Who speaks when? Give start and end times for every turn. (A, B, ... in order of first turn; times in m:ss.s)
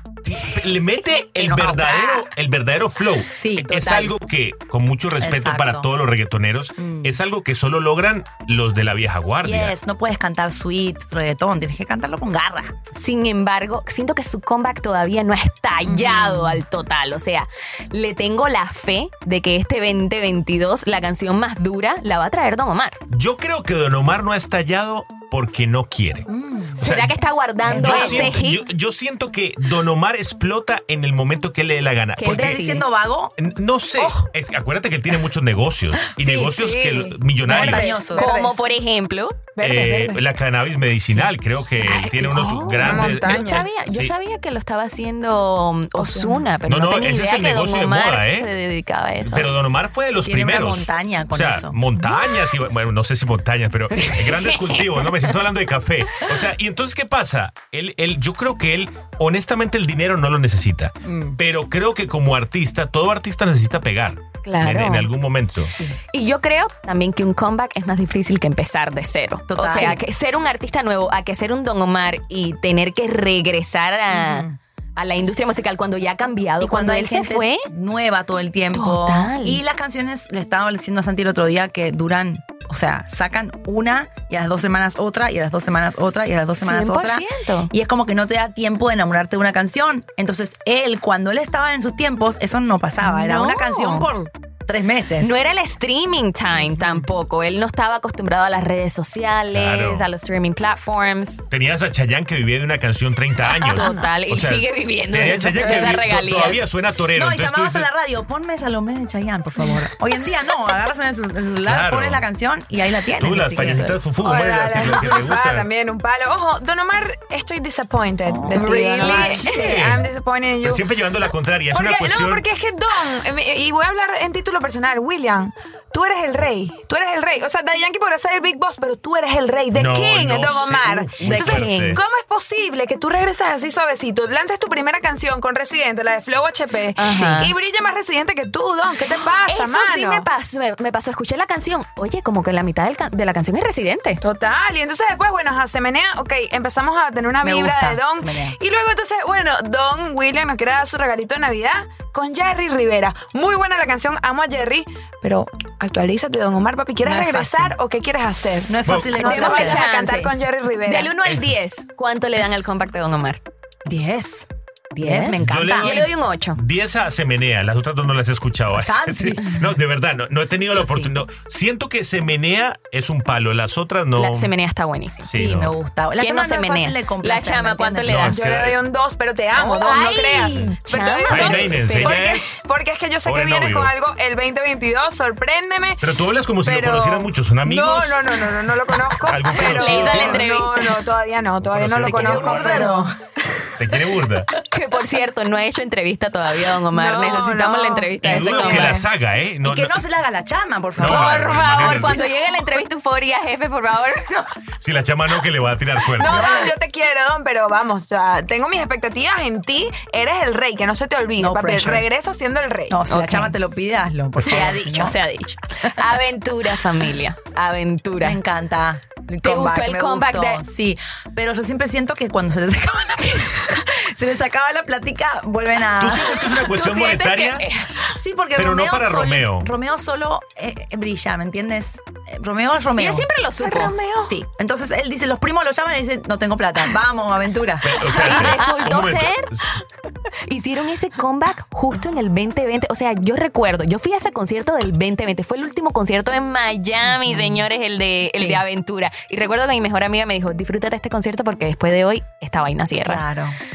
0:00.2-0:09.7 A
0:01.4-0:02.3 B
0:03.3-0:03.8 C
0:03.7-0:04.1 B
0:05.2-0:05.9 C
0:06.8-0:07.2 C
0:09.4-0:12.7 C
0:12.9-0:23.0 B
0:15.9-0:16.6 C
0:23.1-0:26.3 A
0:26.3-0:26.8 C
0:26.8-0:28.6 B
0:26.8-0:32.6 A
0:27.6-0:28.4 C
0:32.2-0:32.9 B
0:32.2-0:33.3 C
0:33.4-0:38.0 A
0:36.2-0:36.5 C
0:36.5-0:38.6 D
0:37.4-0:38.4 C
0:38.1-0:39.5 B
0:39.6-0:40.2 D
0:39.6-0:44.1 A
0:41.8-0:49.5 B
0:42.8-0:43.6 D
0:46.0-0:46.4 D
0:46.6-0:48.5 A
0:49.2-1:05.7 A
0:50.2-0:51.8 C
0:54.1-0:54.7 B
1:01.0-1:01.4 C
1:04.4-1:05.1 B
1:05.7-1:06.0 C
1:06.1-1:17.7 B
1:09.5-1:10.0 C
1:14.1-1:14.6 C
1:16.6-1:35.3 C
1:18.7-1:19.6 B
1:26.6-1:27.7 B
1:33.0-1:34.1 B
1:35.2-1:41.4 B
1:36.6-1:37.0 C
1:39.5-1:40.1 A
1:41.5-1:47.9 A
1:43.7-1:46.6 B
1:47.1-1:53.9 C
1:51.6-1:52.2 A
1:53.2-1:55.7 A
1:53.6-1:54.0 B
1:54.1-2:00.8 D
1:58.2-1:59.2 C
1:58.5-1:59.6 B
1:59.3-2:00.1 A
2:00.6-2:02.4 A
2:01.7-2:20.3 D
2:09.7-2:12.0 A
2:11.2-2:12.0 B
2:17.0-2:17.5 B
2:17.1-2:17.5 C
2:19.5-2:24.2 B
2:24.2-2:41.1 D
2:27.4-2:28.6 C
2:37.0-2:37.8 C
2:38.7-2:39.8 C
2:38.8-2:39.2 A
2:39.2-2:40.3 B
2:40.8-2:43.4 B
2:43.8-2:46.0 C
2:44.9-2:46.6 B
2:45.4-2:54.5 A
2:48.7-2:49.6 C
2:50.8-2:51.1 C
2:54.2-2:55.3 B
2:55.2-2:55.7 A
2:55.3-2:58.3 C
2:56.2-2:58.4 B
2:58.0-2:58.8 A
2:58.2-3:06.0 D
2:59.5-3:02.3 B
3:01.3-3:02.5 A
3:03.2-3:03.9 A
3:06.0-3:10.5 A
3:06.6-3:13.1 D
3:09.7-3:10.9 B
3:11.6-3:13.0 A
3:12.0-3:13.1 C
3:13.8-3:14.5 A
3:14.7-3:19.0 B
3:16.9-3:19.0 D
3:18.2-3:20.0 A
3:19.6-3:22.2 C
3:21.0-3:22.2 A
3:21.0-3:24.5 B
3:24.8-3:26.4 A
3:26.2-3:33.0 D
3:26.3-3:26.7 C
3:31.4-3:32.1 C
3:32.9-3:35.2 C
3:33.1-3:33.5 B
3:34.4-3:38.4 B
3:38.2-3:46.4 C
3:39.4-3:40.6 B
3:46.0-3:47.6 A
3:46.7-3:47.9 B
3:48.1-3:53.3 C
3:48.6-3:49.7 A
3:53.0-3:54.0 B
3:53.6-3:54.4 D
3:54.2-3:58.9 C
3:57.8-3:59.7 A
3:58.2-3:59.5 B
4:00.4-4:13.2 B
4:07.1-4:07.6 C
4:08.4-4:08.6 C
4:13.0-4:13.6 C